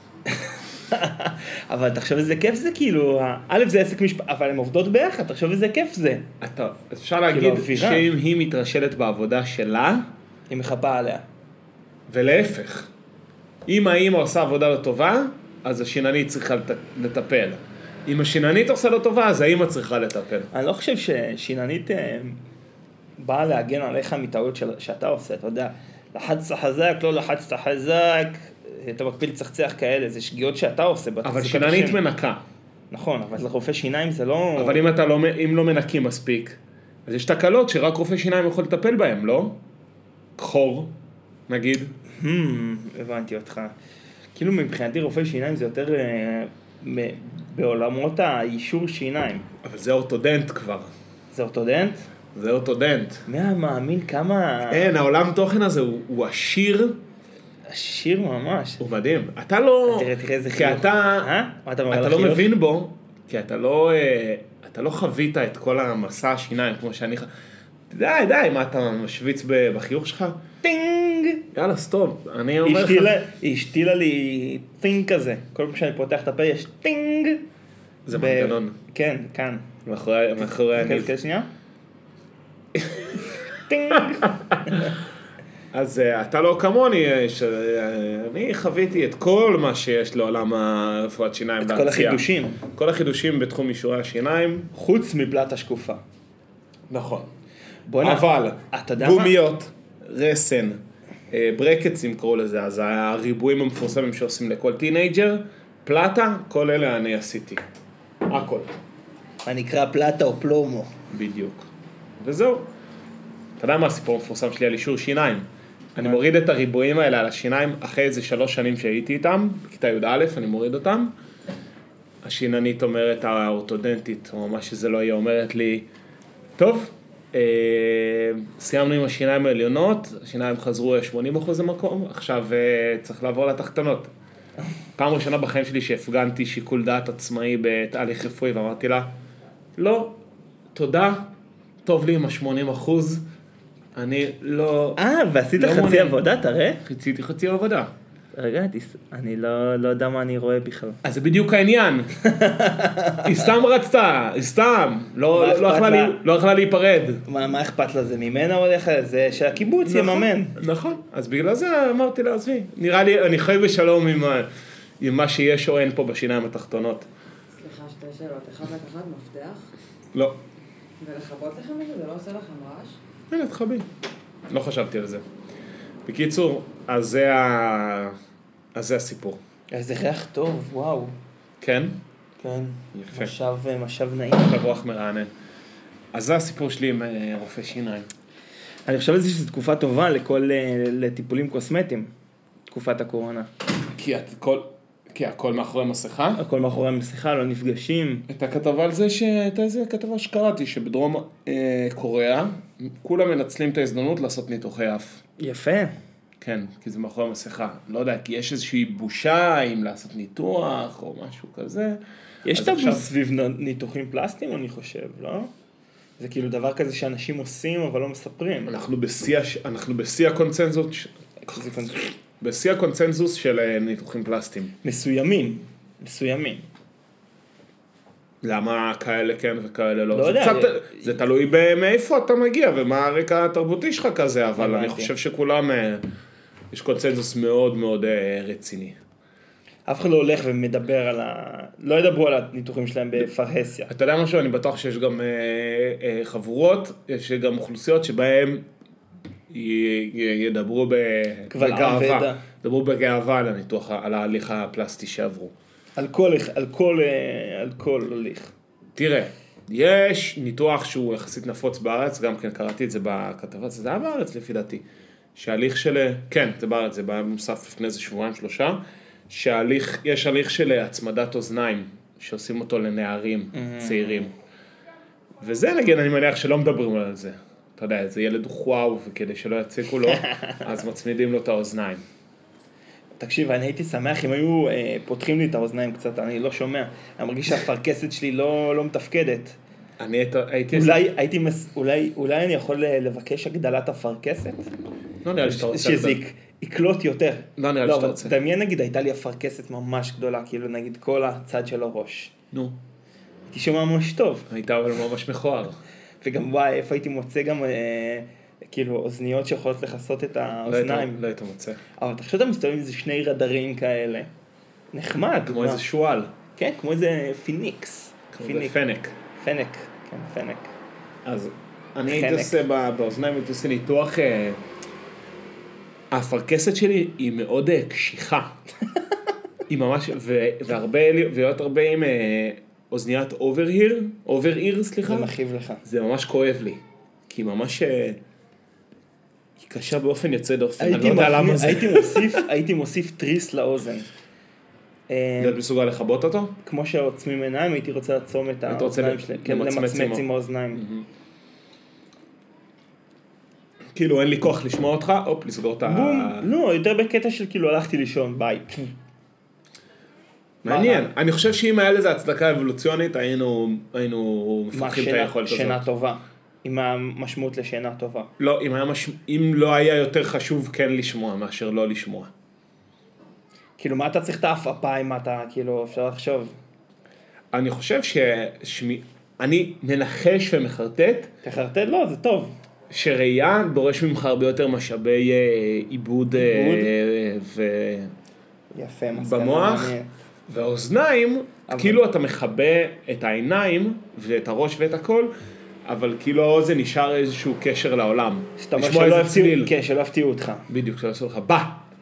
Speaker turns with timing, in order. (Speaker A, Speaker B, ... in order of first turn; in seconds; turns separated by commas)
Speaker A: 0.3-6.3, Speaker B: 6.4-10.0, Speaker A: 7.3-8.1, Speaker A: 10.5-11.2, Speaker B: 12.1-12.9, Speaker B: 13.7-20.5, Speaker A: 20.5-22.4, Speaker A: 23.2-32.0, Speaker B: 31.2-32.4, Speaker A: 32.9-34.8, Speaker B: 34.6-36.5, Speaker B: 37.1-39.5, Speaker B: 40.4-40.9, Speaker B: 41.5-41.9, Speaker A: 42.2-43.8, Speaker A: 44.4-49.5, Speaker B: 49.6-50.9, Speaker A: 51.3-52.1, Speaker B: 52.4-53.2, Speaker A: 53.3-55.0, Speaker B: 54.7-57.0, Speaker A: 57.7-58.8, Speaker B: 58.8-60.1, Speaker A: 59.9-62.5, Speaker B: 60.6-61.3, Speaker B: 61.9-67.3, Speaker B: 67.9-70.4, Speaker A: 70.6-71.5, Speaker B: 71.5-73.1, Speaker A: 72.7-77.4, Speaker B: 78.1-78.7, Speaker A: 78.1-79.7, Speaker B: 79.9-81.1, Speaker A: 80.4-81.5, Speaker A: 83.7-84.9, Speaker B: 85.7-92.2, Speaker A: 91.6-92.6, Speaker B: 92.8-94.7, Speaker A: 94.7-96.0, Speaker B: 96.9-97.3, Speaker A: 97.9-99.3, Speaker B: 98.0-100.8, Speaker B: 101.3-107.6, Speaker B: 108.3-108.7, Speaker A: 109.5-110.9, Speaker B: 111.1-111.7, Speaker B: 112.2-112.7, Speaker B: 113.6-115.4, Speaker B: 116.0-121.1, Speaker B: 122.2-125.8, Speaker B: 126.6-134.1, Speaker B: 135.0-139.1, Speaker B: 139.8-140.2, Speaker B: 140.8-141.2, Speaker B: 141.8-143.2, Speaker B: 144.0-145.0, Speaker A: 145.0-146.8, Speaker B: 145.6-146.2, Speaker B: 146.9-147.9, Speaker A: 148.3-151.0, Speaker B: 151.1-152.1, Speaker A: 152.3-153.3, Speaker B: 153.2-157.2, Speaker A: 155.3-156.2, Speaker A: 157.3-160.5, Speaker B: 159.8-164.4, Speaker B: 165.0-167.1, Speaker C: 167.6-169.7, Speaker B: 170.1-170.4, Speaker C: 171.0-173.0, Speaker B: 173.3-173.8, Speaker B: 174.5-175.2, Speaker B: 176.1-178.1, Speaker B: 178.8-179.4, Speaker A: 179.7-181.2, Speaker B: 181.6-182.0, Speaker A: 182.4-184.6, Speaker B: 183.0-183.3, Speaker B: 184.4-185.3, Speaker B: 186.1-188.1, Speaker A: 188.9-192.1, Speaker A: 192.7-193.5, Speaker B: 194.0-196.4, Speaker A: 196.4-198.3, Speaker B: 198.3-205.2, Speaker A: 205.4-205.9, Speaker B: 206.4-212.0, Speaker A: 212.5-215.5, Speaker B: 212.5-213.1, Speaker A: 216.2-218.7, Speaker B: 218.7-221.1, Speaker A: 221.4-222.1, Speaker B: 222.4-224.7, Speaker A: 224.8-226.7, Speaker B: 228.4-236.0, Speaker A: 230.1-231.1, Speaker A: 234.6-235.1, Speaker B: 236.7-238.9, Speaker A: 239.9-243.9, Speaker B: 243.9-248.6, Speaker B: 249.5-255.5, Speaker A: 251.5-252.4, Speaker A: 256.0-258.5, Speaker B: 259.0-264.8, Speaker B: 265.4-268.8, Speaker B: 269.3-274.3, Speaker A: 273.5-274.3, Speaker B: 275.4-282.0, Speaker A: 283.2-289.6, Speaker B: 290.0-291.0, Speaker A: 290.7-294.7, Speaker B: 295.2-296.2, Speaker A: 295.4-302.3, Speaker B: 297.6-298.4, Speaker A: 303.5-304.5, Speaker B: 304.5-305.8, Speaker A: 306.2-311.2, Speaker B: 310.7-311.8, Speaker A: 312.0-314.3, Speaker A: 314.9-315.8, Speaker B: 315.5-316.3, Speaker A: 316.6-318.8, Speaker B: 318.3-319.1, Speaker A: 319.4-320.7, Speaker B: 321.3-324.6, Speaker A: 322.1-322.6, Speaker B: 326.1-328.5, Speaker B: 329.7-335.3, Speaker A: 335.1-335.8, Speaker B: 335.9-336.8, Speaker B: 337.3-338.2, Speaker B: 339.6-342.3, Speaker A: 340.8-344.1, Speaker A: 345.1-345.6, Speaker B: 345.4-346.5, Speaker A: 346.6-350.8, Speaker B: 348.7-350.2, Speaker B: 350.8-351.0, Speaker B: 354.0-356.5, Speaker A: 355.8-358.9, Speaker A: 360.6-361.1, Speaker B: 360.6-365.8, Speaker A: 364.7-368.3, Speaker B: 368.4-372.3, Speaker A: 373.8-376.5, Speaker B: 377.5-381.3, Speaker A: 381.4-382.5, Speaker B: 382.9-388.1, Speaker A: 386.3-386.9, Speaker A: 388.7-390.1, Speaker B: 389.2-389.9, Speaker B: 390.5-395.3, Speaker A: 391.7-392.0, Speaker B: 395.9-399.7, Speaker A: 398.6-400.7, Speaker B: 400.7-401.8